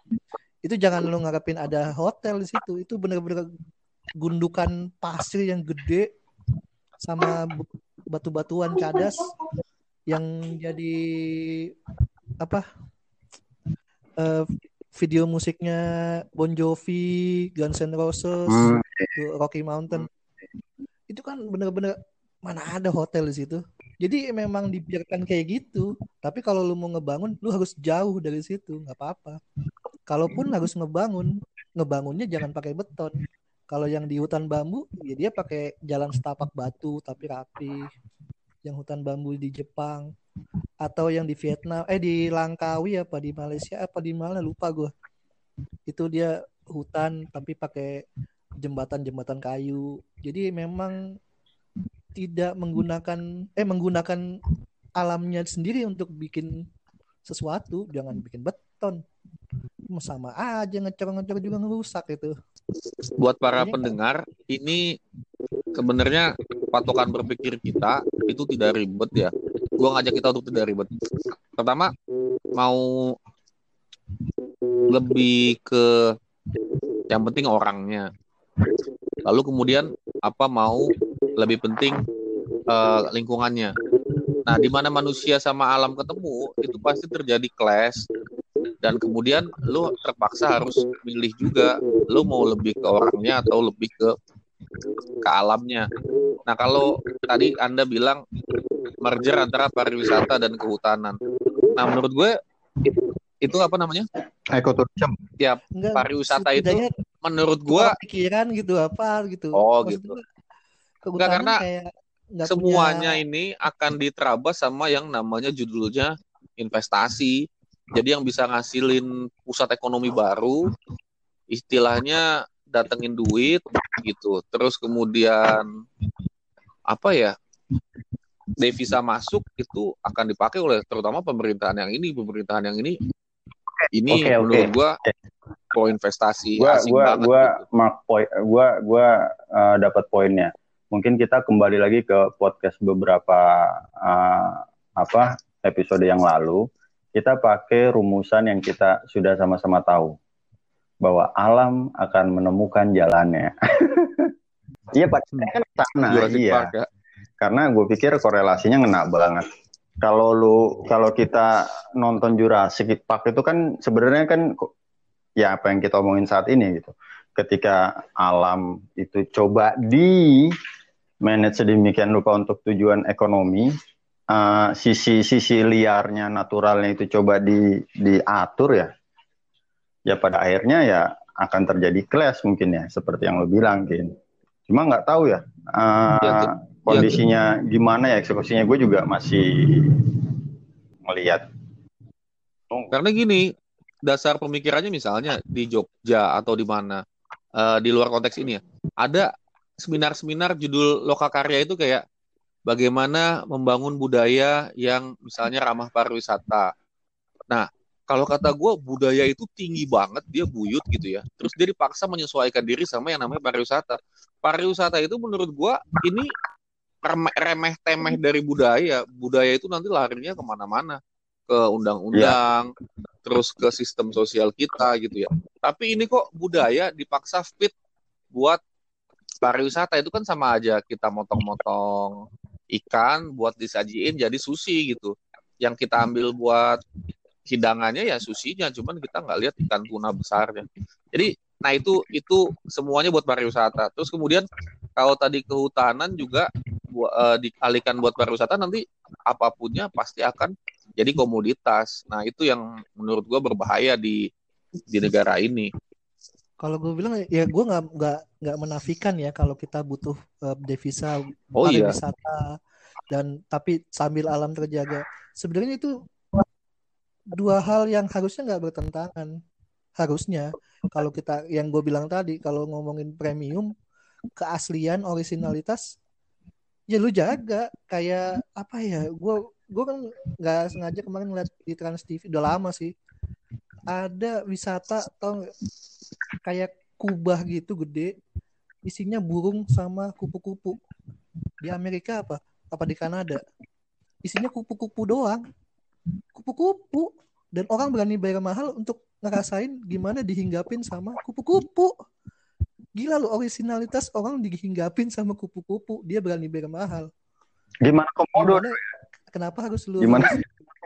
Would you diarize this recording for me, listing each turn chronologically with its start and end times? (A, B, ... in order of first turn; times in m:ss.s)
0:00.6-0:03.5 A
0:04.2-0:06.1 A
0:07.0-0:09.3 A
0:10.1-0:11.7 A
0:14.2-0:15.8 A
0:16.4-0:20.1 A
0:18.5-0:19.1 B
0:21.1-0:21.9 A
0:22.4-0:29.4 A
0:30.1-0:33.1 A
0:33.7-0:37.9 A
0:38.6-0:40.1 A
0:40.8-0:44.9 A
0:45.9-0:48.0 A
0:48.6-0:51.0 A
0:52.2-0:54.2 A
0:55.0-0:56.5 A
0:57.3-0:59.0 A
0:59.9-1:02.3 A
1:03.2-1:04.8 C
1:03.6-1:03.8 A
1:05.7-1:10.9 C
1:11.6-1:11.9 C
1:12.5-1:13.1 C
1:14.9-1:15.9 C
1:17.1-1:18.1 C
1:19.2-1:22.0 C
1:22.7-1:23.7 C
1:24.4-1:28.0 C
1:28.8-1:34.1 C
1:35.2-1:35.9 C
1:36.5-1:38.2 C
1:39.0-1:41.2 C
1:41.8-1:42.3 C
1:43.4-1:44.1 C
1:44.5-1:45.2 B
1:45.4-1:47.9 C
1:45.8-1:46.9 A
1:47.7-1:50.2 A
1:49.5-1:50.1 C
1:51.0-1:53.2 A
1:51.2-1:51.6 C
1:52.4-2:00.7 C
2:01.5-2:05.7 C
2:06.9-2:07.3 C
2:08.6-2:13.0 C
2:13.8-2:15.1 B
2:13.9-2:14.9 C
2:15.7-2:17.6 C
2:16.6-2:30.1 B
2:31.0-2:34.3 B
2:34.9-2:36.7 B
2:36.1-2:36.8 C
2:37.4-2:39.4 B
2:40.0-2:44.7 B
2:45.4-2:50.5 B
2:51.2-2:53.7 B
2:54.3-2:58.9 B
3:00.1-3:04.1 B
3:04.7-3:10.4 B
3:06.2-3:07.2 C
3:11.0-3:11.4 B
3:12.9-3:13.4 C
3:14.0-3:17.0 C
3:17.6-3:22.0 C
3:22.7-3:26.7 C
3:27.5-3:36.3 C
3:37.0-3:42.7 C
3:43.2-3:47.7 C
3:48.3-3:48.6 C
3:49.4-3:52.2 C
3:52.7-3:56.8 C
3:57.4-4:14.3 C
4:14.9-4:15.7 C
4:16.6-4:22.4 A
4:21.6-4:21.9 C
4:23.1-4:26.4 A
4:27.3-4:29.3 A
4:30.0-4:33.7 A
4:34.4-4:35.8 A
4:36.9-4:42.9 A
4:43.9-4:45.4 A
4:46.4-4:48.1 A
4:48.8-4:50.8 A
4:51.6-4:53.4 A
4:54.2-4:55.4 A
4:56.3-5:01.9 A
5:03.0-5:07.1 A
5:07.8-5:08.8 B
5:08.4-5:08.8 A
5:09.3-5:10.4 A
5:10.0-5:10.4 B